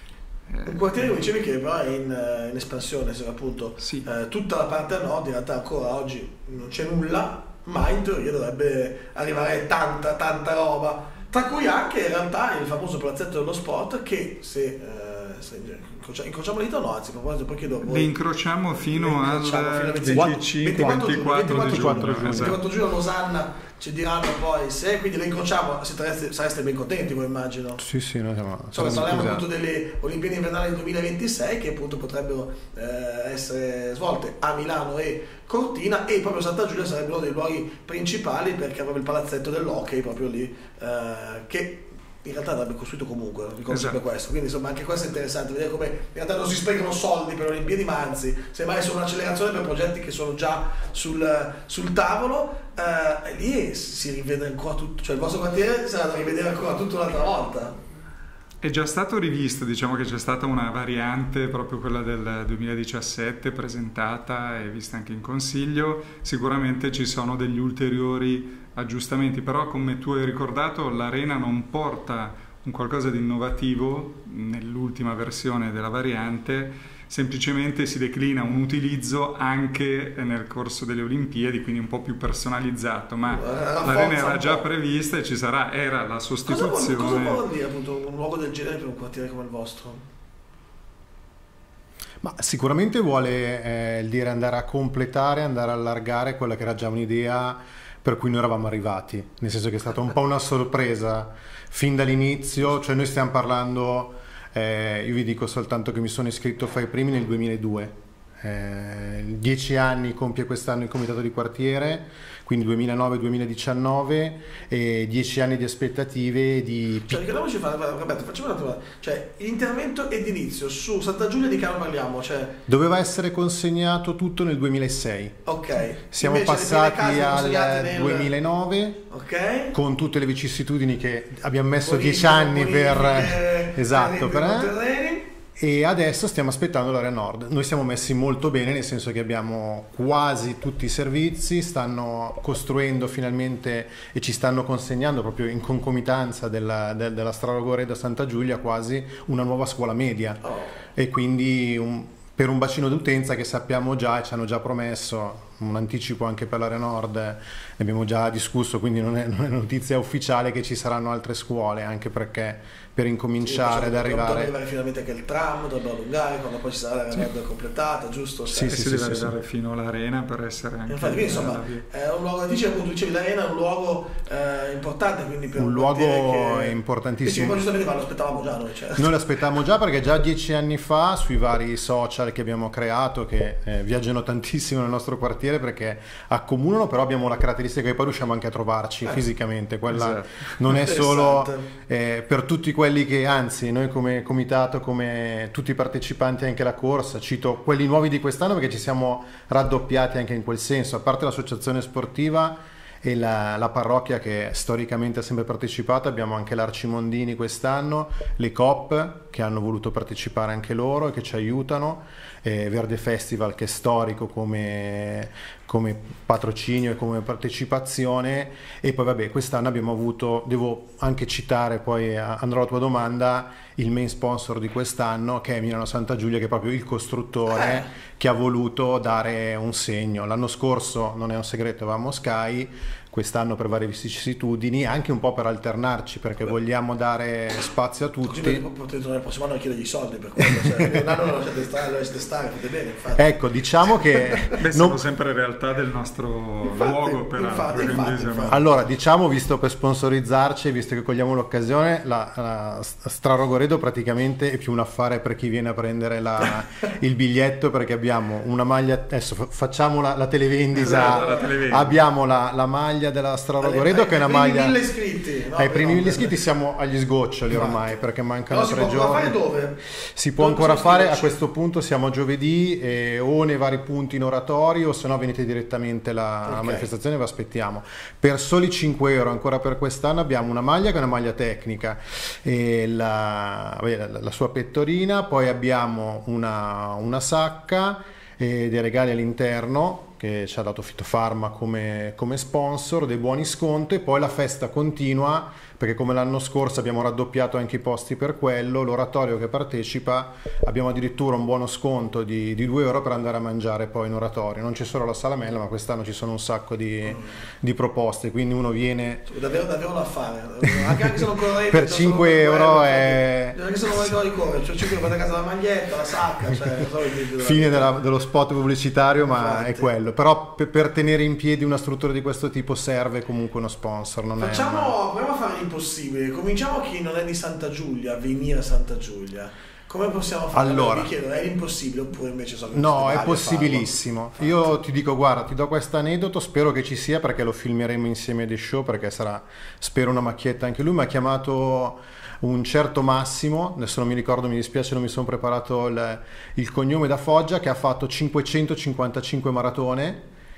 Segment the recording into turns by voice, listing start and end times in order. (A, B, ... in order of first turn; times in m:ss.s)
0:00.5-0:01.3 A
0:00.6-0:18.1 B
0:03.8-0:04.1 A
0:17.8-0:22.6 A
0:18.9-0:27.8 B
0:21.5-0:22.6 C
0:27.8-0:29.4 C
0:28.7-0:57.8 B
0:43.7-0:44.0 A
0:58.6-1:27.4 A
1:23.3-1:24.7 B
1:26.5-1:30.0 B
1:32.2-1:57.3 C
1:57.1-2:02.6 B
2:02.7-2:05.4 C
2:05.5-2:08.3 B
2:06.1-2:09.0 C
2:09.1-2:09.8 B
2:09.7-2:14.7 C
2:11.8-2:15.3 B
2:15.6-2:30.4 C
2:30.4-2:30.8 B
2:31.0-2:44.5 C
2:43.4-2:48.8 B
2:48.5-2:49.4 C
2:48.7-2:51.9 A
2:50.9-2:59.1 B
2:55.6-2:57.6 C
2:59.0-3:58.6 C
3:09.9-3:10.5 A
3:10.6-3:11.7 B
3:47.5-3:47.9 B
3:58.2-4:03.4 B
4:00.5-4:01.0 C
4:03.2-4:05.0 C
4:04.1-4:04.5 B
4:04.6-4:08.6 A
4:06.6-4:08.6 B
4:08.5-4:24.8 C
4:20.8-4:22.0 A
4:20.9-4:21.5 B
4:23.6-4:26.4 B
4:25.6-4:29.4 C
4:27.5-4:29.8 B
4:30.0-5:09.3 C
4:30.4-4:31.4 B
4:36.5-4:36.9 B
5:09.3-5:17.9 B
5:11.1-5:14.1 C
5:17.4-5:24.9 C
5:19.2-5:19.9 B
5:24.4-5:34.7 B
5:30.5-5:31.1 C
5:32.7-5:50.2 C